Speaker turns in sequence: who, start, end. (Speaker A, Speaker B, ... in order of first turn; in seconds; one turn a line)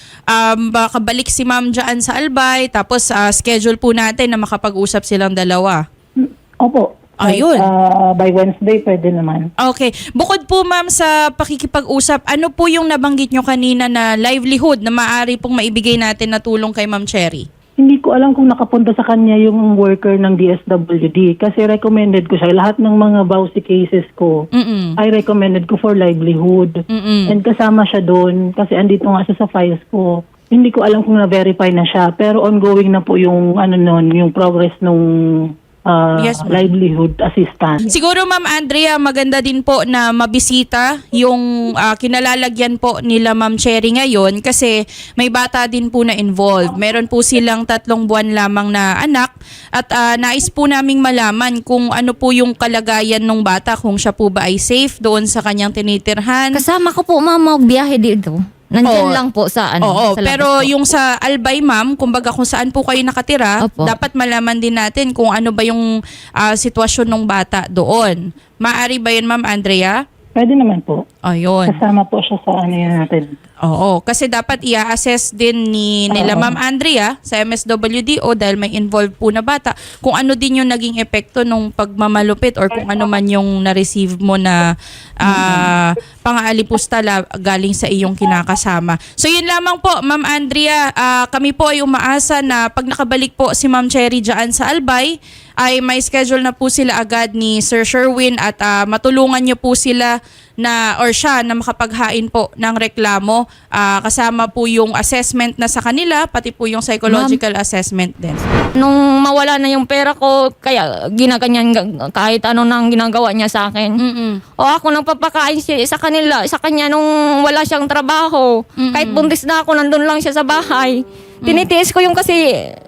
Speaker A: 0.3-5.8
Speaker B: 6.2-9.5
Speaker A: 7.2-7.7
Speaker A: 9.6-17.5
Speaker B: 17.8-24.3
Speaker A: 24.6-25.0
Speaker B: 25.0-26.7
Speaker A: 26.9-27.4
Speaker B: 27.3-35.0
Speaker B: 35.9-37.8
Speaker A: 36.2-36.7
Speaker A: 37.9-56.6
Speaker C: 56.5-60.7
Speaker A: 58.9-59.2
Speaker A: 59.8-65.8
Speaker C: 63.6-64.0
Speaker A: 66.4-70.0
Speaker B: 70.4-71.0
Speaker A: 71.2-71.8
Speaker B: 71.7-73.3
Speaker A: 73.7-84.6
Speaker B: 76.1-76.6
Speaker A: 85.2-108.5
Speaker B: 85.2-85.7
Speaker C: 107.1-107.4
Speaker C: 108.8-113.9
Speaker A: 114.0-114.4
Speaker C: 114.6-122.4
Speaker A: 118.8-119.3